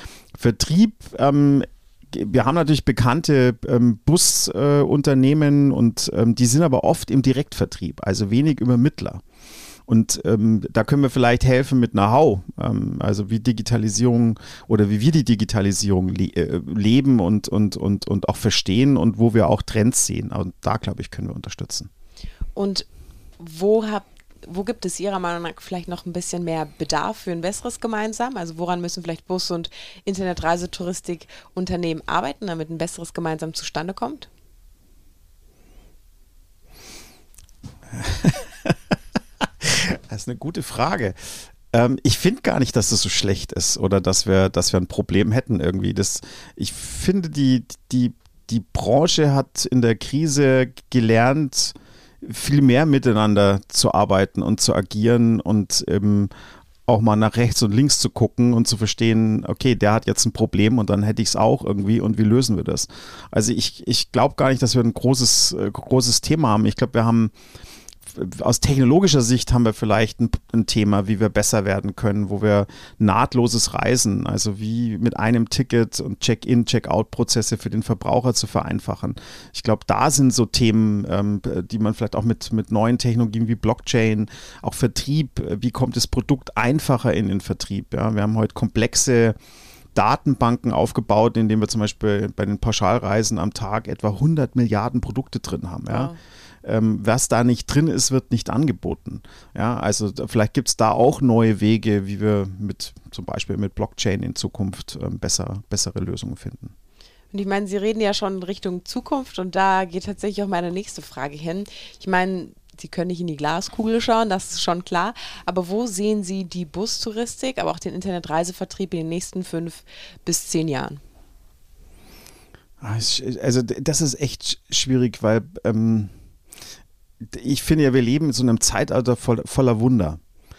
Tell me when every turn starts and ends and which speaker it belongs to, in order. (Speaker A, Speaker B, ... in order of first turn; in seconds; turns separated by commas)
Speaker A: 0.3-9.2, Speaker A: 9.9-21.9, Speaker B: 22.6-22.9, Speaker B: 23.4-34.3, Speaker A: 37.9-38.8, Speaker A: 39.6-56.3, Speaker A: 56.9-67.3, Speaker A: 68.1-89.3, Speaker A: 89.9-96.1, Speaker B: 95.9-96.2, Speaker A: 96.6-106.7, Speaker B: 107.3-121.0, Speaker A: 122.8-126.1, Speaker A: 127.2-130.2